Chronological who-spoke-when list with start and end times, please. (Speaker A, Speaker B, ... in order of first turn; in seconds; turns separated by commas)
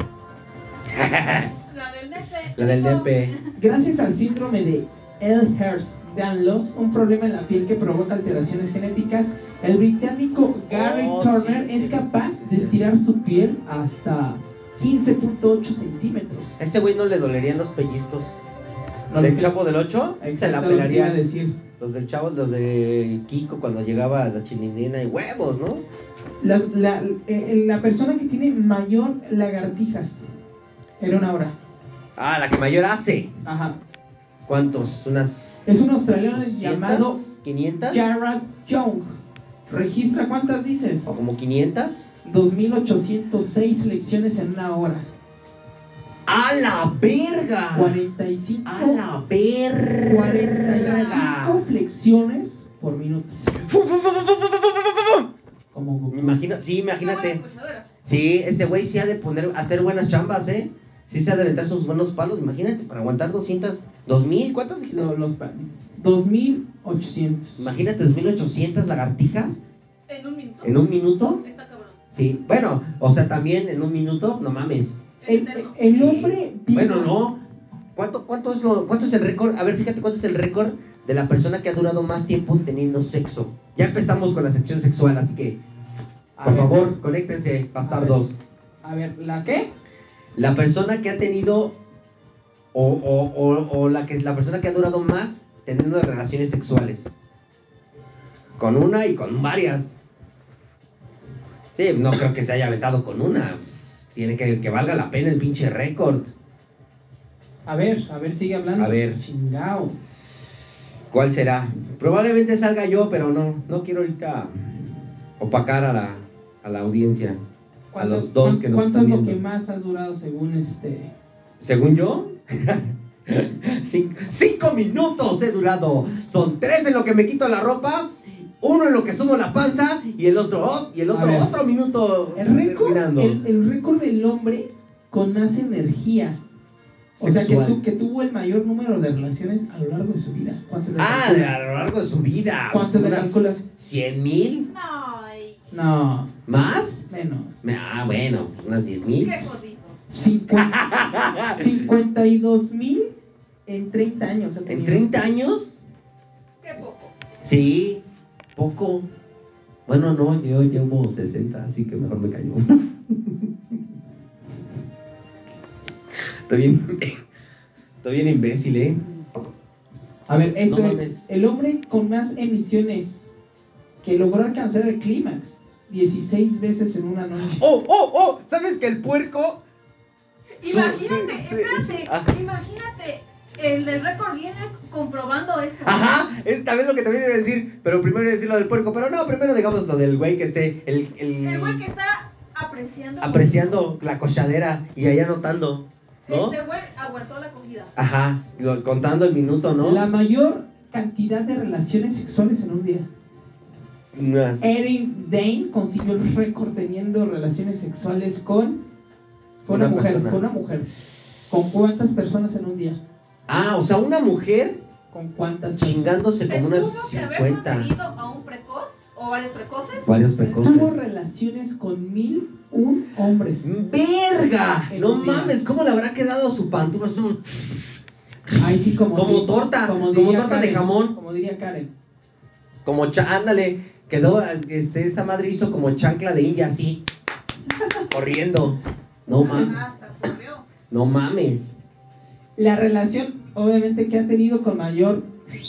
Speaker A: 0.9-1.5, Speaker B: 1.7-3.4, Speaker A: 2.5-3.4, Speaker C: 3.5-16.6, Speaker A: 10.7-12.8, Speaker A: 16.6-18.4, Speaker C: 19.1-19.5, Speaker A: 19.2-21.2, Speaker C: 20.2-21.6, Speaker A: 21.8-25.8, Speaker C: 26.4-30.2, Speaker C: 31.0-31.6, Speaker A: 32.2-33.3, Speaker C: 33.5-33.8, Speaker A: 34.5-38.0, Speaker C: 35.7-37.2, Speaker C: 37.9-39.1, Speaker C: 39.7-41.1, Speaker A: 41.1-42.1, Speaker C: 42.2-45.1, Speaker A: 46.3-48.0, Speaker C: 47.7-49.0, Speaker A: 48.6-51.6, Speaker C: 50.1-53.5, Speaker B: 50.8-51.3, Speaker A: 53.5-55.3, Speaker C: 55.7-56.4, Speaker A: 56.1-57.4, Speaker B: 56.9-57.9, Speaker A: 58.0-65.1, Speaker C: 64.9-67.7, Speaker A: 67.6-69.6, Speaker B: 70.1-72.0, Speaker A: 70.6-71.4, Speaker A: 72.1-75.0, Speaker B: 75.2-75.8, Speaker C: 75.3-77.1, Speaker A: 75.9-77.4, Speaker A: 78.0-85.6, Speaker C: 86.4-86.9, Speaker A: 86.4-88.4, Speaker C: 87.8-88.2, Speaker C: 88.8-89.7, Speaker A: 90.4-91.8, Speaker A: 92.7-97.1, Speaker A: 98.6-100.0, Speaker A: 101.8-106.3, Speaker C: 107.7-110.0, Speaker A: 108.8-109.2, Speaker A: 111.1-117.4, Speaker C: 117.9-121.1, Speaker A: 118.0-119.4, Speaker A: 121.6-133.4, Speaker C: 131.1-131.5, Speaker C: 132.3-136.4, Speaker C: 137.2-141.6, Speaker A: 137.2-137.8, Speaker A: 141.0-144.7, Speaker C: 142.7-143.6, Speaker B: 144.7-145.8, Speaker C: 145.7-146.3, Speaker A: 146.5-147.1, Speaker C: 147.1-147.6, Speaker A: 147.6-149.5, Speaker B: 149.1-150.0, Speaker C: 150.1-150.8, Speaker A: 150.5-151.8, Speaker C: 151.5-153.1, Speaker C: 153.7-155.1, Speaker A: 154.7-155.8, Speaker B: 156.6-157.1, Speaker A: 157.4-158.0, Speaker A: 158.6-159.1, Speaker A: 159.9-163.8, Speaker A: 166.2-167.2, Speaker A: 168.0-169.0, Speaker C: 170.3-173.3, Speaker A: 170.7-171.3, Speaker C: 174.0-177.6, Speaker A: 177.4-179.6, Speaker B: 180.6-186.1, Speaker A: 180.6-182.3, Speaker A: 185.8-191.8, Speaker B: 191.4-193.8, Speaker A: 193.2-196.6, Speaker B: 196.3-197.9, Speaker A: 198.0-200.0, Speaker C: 199.8-203.1, Speaker A: 204.1-204.6, Speaker C: 204.6-208.8, Speaker C: 209.7-210.9, Speaker A: 209.7-210.4, Speaker C: 211.5-213.0, Speaker A: 213.5-214.8, Speaker C: 215.1-216.1, Speaker A: 215.8-217.9, Speaker B: 216.5-220.1, Speaker A: 220.0-221.0, Speaker C: 220.4-223.7, Speaker A: 223.6-227.9, Speaker C: 224.9-225.6, Speaker C: 228.6-231.9, Speaker A: 229.1-231.2, Speaker A: 232.8-237.0, Speaker A: 238.1-239.8, Speaker B: 239.3-240.7, Speaker A: 240.9-241.8, Speaker C: 242.6-245.3